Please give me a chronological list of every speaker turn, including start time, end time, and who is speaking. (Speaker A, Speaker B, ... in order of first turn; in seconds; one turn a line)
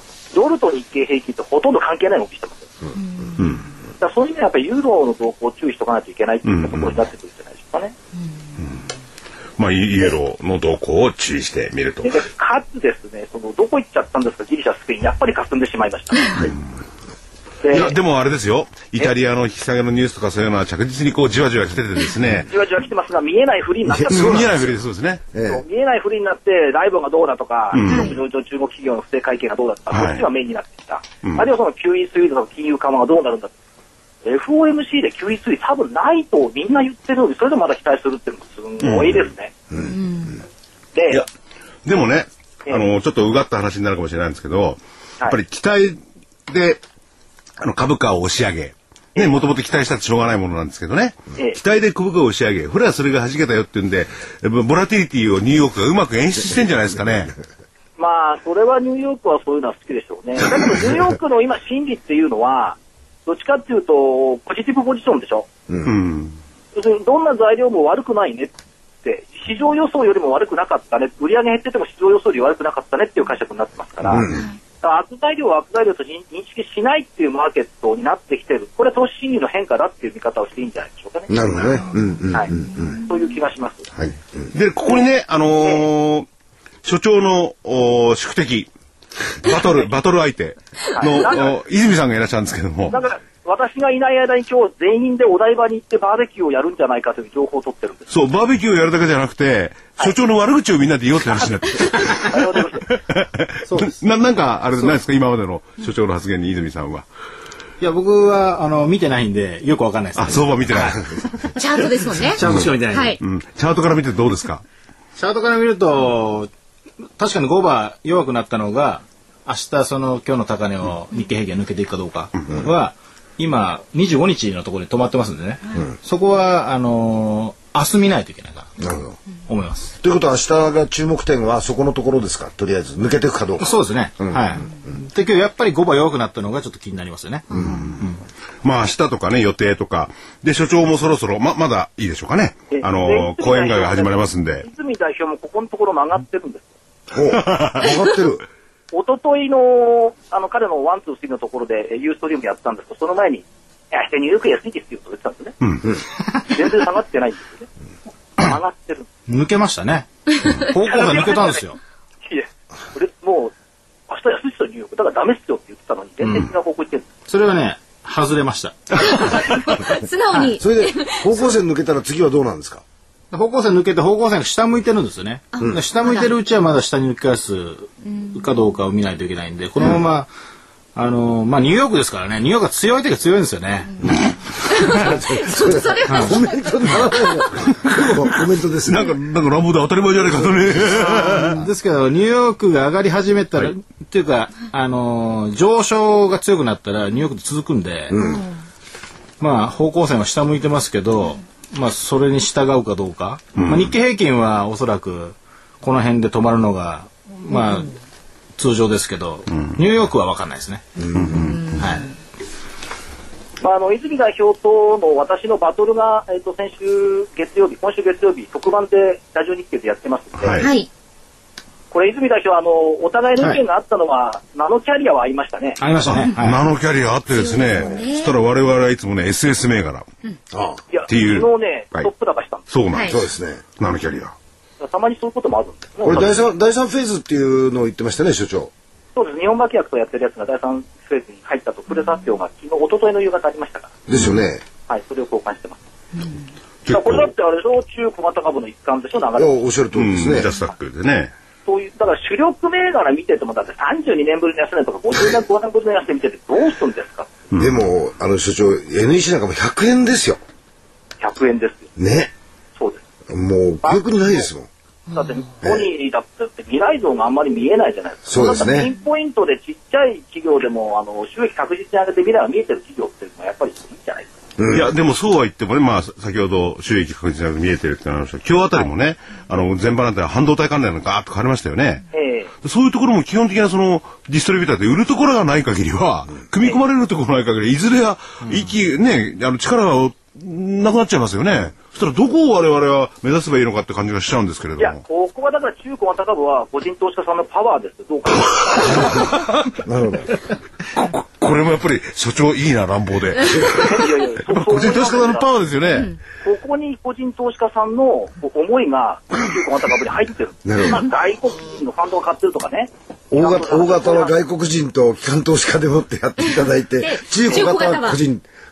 Speaker A: 0.3-2.7
Speaker B: 3.0-3.4
Speaker C: 3.4-3.6
Speaker A: 4.0-8.0
Speaker C: 6.5-6.8
Speaker C: 9.6-12.2
Speaker A: 12.0-16.5
Speaker A: 17.6-17.9
Speaker C: 17.7-22.5
Speaker A: 22.5-24.6
Speaker D: 23.9-24.8
Speaker C: 24.1-25.2
Speaker D: 25.3-25.6
Speaker A: 25.4-33.5
Speaker C: 27.7-28.2
Speaker B: 27.8-28.2
Speaker C: 29.9-30.2
Speaker A: 34.2-39.7
Speaker C: 38.8-39.3
Speaker B: 39.8-40.4
Speaker A: 40.9-41.2
Speaker C: 41.9-46.8
Speaker C: 47.6-57.4
Speaker A: 49.1-49.4
Speaker A: 58.0-65.5
Speaker C: 65.8-66.4
Speaker A: 66.7-68.5
Speaker A: 69.0-74.3
Speaker D: 74.1-74.4
Speaker A: 74.8-83.9
Speaker D: 81.3-83.0
Speaker D: 83.9-84.4
Speaker C: 84.5-86.3
Speaker C: 86.8-88.7
Speaker C: 89.3-93.0
Speaker A: 91.0-91.5
Speaker A: 92.9-98.1
Speaker C: 98.1-107.0
Speaker A: 102.0-102.9
Speaker E: 103.7-104.0
Speaker E: 107.8-111.0
Speaker C: 110.2-111.5
Speaker B: 111.5-113.2
Speaker E: 112.1-113.2
Speaker C: 112.4-114.6
Speaker E: 115.2-116.5
Speaker E: 117.2-128.8
Speaker D: 128.8-129.2
Speaker E: 129.5-129.9
Speaker D: 130.0-133.7
Speaker E: 133.6-138.2
Speaker D: 137.5-137.9
Speaker C: 138.6-144.7
Speaker A: 142.7-146.7
Speaker D: 147.1-148.4
Speaker C: 147.3-147.9
Speaker A: 148.9-155.6
Speaker A: 156.5-157.7
Speaker A: 158.4-159.1
Speaker E: 159.3-161.8
Speaker A: 160.8-161.6
Speaker A: 162.2-163.5
Speaker A: 164.1-167.1
Speaker E: 166.2-166.5
Speaker E: 167.3-169.5
Speaker B: 169.0-171.5
Speaker D: 170.6-172.8
Speaker E: 173.3-180.3
Speaker B: 175.5-176.3
Speaker E: 180.9-184.2
Speaker B: 184.7-187.4
Speaker D: 184.8-189.1
Speaker E: 186.1-186.3
Speaker C: 187.8-188.1
Speaker C: 188.8-191.6
Speaker E: 191.2-198.2
Speaker D: 198.1-198.4
Speaker B: 198.2-198.5
Speaker E: 199.4-207.9
Speaker C: 203.6-203.9
Speaker E: 208.6-211.1
Speaker D: 211.0-211.3
Speaker C: 211.1-211.8
Speaker B: 211.4-211.8
Speaker E: 211.8-212.1
Speaker A: 213.6-220.6
Speaker C: 220.4-220.7
Speaker B: 220.5-220.9
Speaker A: 221.9-225.8
Speaker E: 225.8-226.6
Speaker C: 226.0-230.1
Speaker B: 227.3-228.3
Speaker D: 230.5-230.8
Speaker A: 230.9-232.7
Speaker C: 231.1-232.1
Speaker C: 232.7-233.2
Speaker B: 232.9-233.2
Speaker D: 233.1-233.6
Speaker C: 233.8-234.3
Speaker A: 234.8-236.4
Speaker D: 236.0-238.7
Speaker A: 239.2-244.0
Speaker D: 244.1-244.6
Speaker A: 244.9-245.8
Speaker C: 246.8-247.3
Speaker A: 246.9-249.7
Speaker D: 249.3-250.5
Speaker C: 249.9-251.3
Speaker A: 251.7-257.3
Speaker C: 257.5-257.8
Speaker D: 257.6-260.4
Speaker A: 261.2-261.9
Speaker D: 262.0-262.3
Speaker D: 263.3-264.7
Speaker A: 263.8-264.4
Speaker B: 265.1-265.4
Speaker A: 265.1-274.3
Speaker D: 268.3-268.9
Speaker D: 274.6-274.9
Speaker C: 274.7-282.0
Speaker A: 282.1-282.5
Speaker C: 282.6-295.0
Speaker A: 294.8-299.2
Speaker D: 299.8-300.3
Speaker C: 300.9-306.1
Speaker A: 303.6-305.5
Speaker A: 306.4-314.4
Speaker D: 310.6-311.0
Speaker D: 313.3-318.4
Speaker B: 317.0-318.2